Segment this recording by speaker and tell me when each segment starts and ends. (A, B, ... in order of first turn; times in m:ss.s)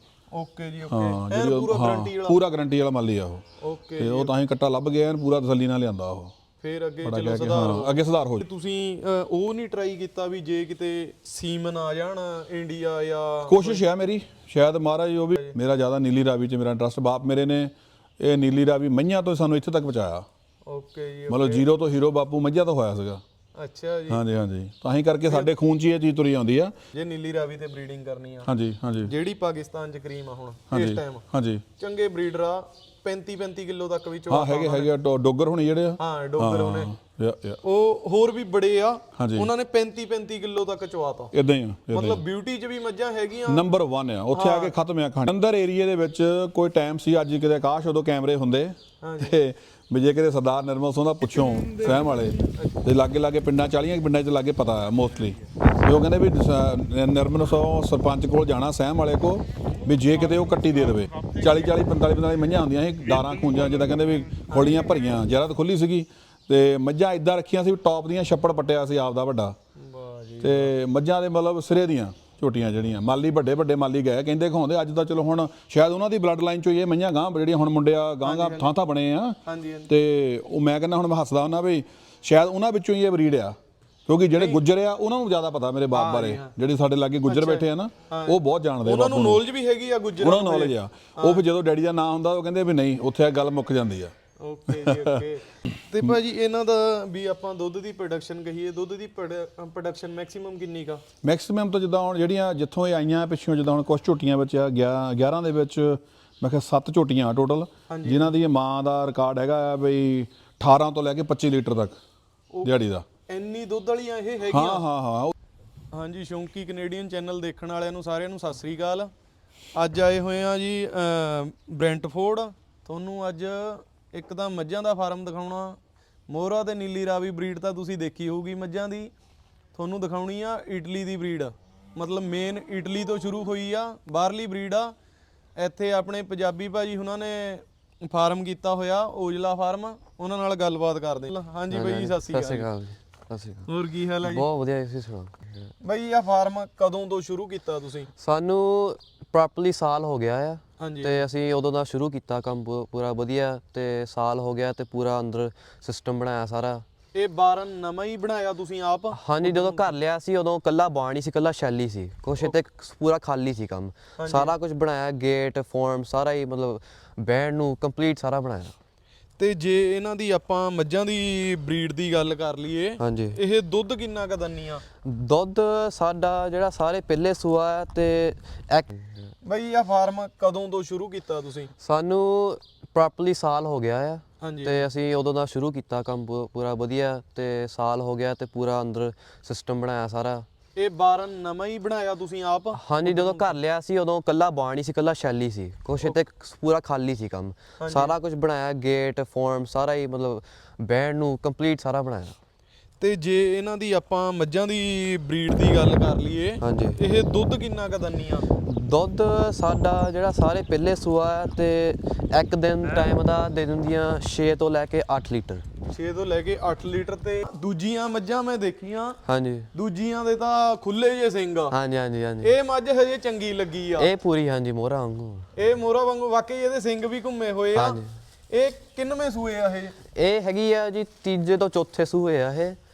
0:00.3-0:02.4 A
0:00.9-0:03.4 B
0:03.6-0:04.3 A
0:04.0-0:06.3 B
0:06.6-0:13.8 A
0:07.0-0:08.4 B
0:13.5-0:20.2 B
0:20.7-0:21.7 A
0:21.3-0:23.2 B
0:23.6-0:24.2 A
0:24.1-0:26.7 B
0:25.2-0:25.5 A
0:26.9-0:28.5 A
0:28.5-0:29.1 B
0:29.0-0:31.2 A
0:30.7-0:31.6 B
0:31.8-0:34.9 A
0:34.3-0:37.6 B
0:36.0-0:36.9 A
0:37.6-0:41.3 A
0:39.2-0:39.5 B
0:41.3-0:42.2 B
0:41.9-0:43.7 A
0:43.5-1:09.5 B
0:44.3-0:44.7 A
0:49.0-0:49.4 A
0:51.4-0:52.8 A
1:00.2-1:00.9 A
1:04.5-1:04.8 A
1:09.8-1:10.7 A
1:10.4-1:19.4 B
1:18.2-1:18.7 A
1:19.4-1:19.9 A
1:19.9-1:23.6 B
1:24.1-1:29.4 B
1:24.3-1:24.6 A
1:25.9-1:26.5 A
1:27.2-1:31.4 A
1:30.2-1:34.1 B
1:34.4-1:41.0 A
1:34.7-1:35.2 B
1:41.2-1:52.0 B
1:47.9-1:48.4 A
1:52.5-1:54.8 A
1:52.6-1:53.0 B
1:54.5-1:55.3 B
1:55.9-1:59.1 A
1:59.7-2:05.8 A
2:06.3-2:09.1 A
2:09.7-2:14.9 A
2:15.6-2:22.7 A
2:21.7-2:23.6 C
2:23.6-2:24.5 A
2:24.2-2:25.7 C
2:25.8-2:28.1 A
2:28.2-2:36.8 C
2:30.8-2:31.2 A
2:37.1-2:39.9 A
2:39.1-2:48.7 C
2:44.2-2:44.5 A
2:49.4-2:54.8 A
2:53.0-2:53.4 C
2:55.0-2:59.3 C
2:59.4-3:01.7 A
3:01.8-3:10.4 C
3:04.4-3:04.8 A
3:10.8-3:13.6 A
3:12.7-3:22.3 C
3:17.8-3:18.1 A
3:23.0-3:28.4 A
3:26.6-3:27.0 C
3:28.6-3:35.6 C
3:35.9-3:39.2 A
3:39.2-3:39.7 C
3:39.7-3:41.8 A
3:41.7-3:42.5 C
3:42.4-3:44.1 A
3:44.0-3:45.4 C
3:45.5-3:48.0 A
3:47.8-3:48.1 C
3:48.5-3:50.0 A
3:50.1-3:52.8 C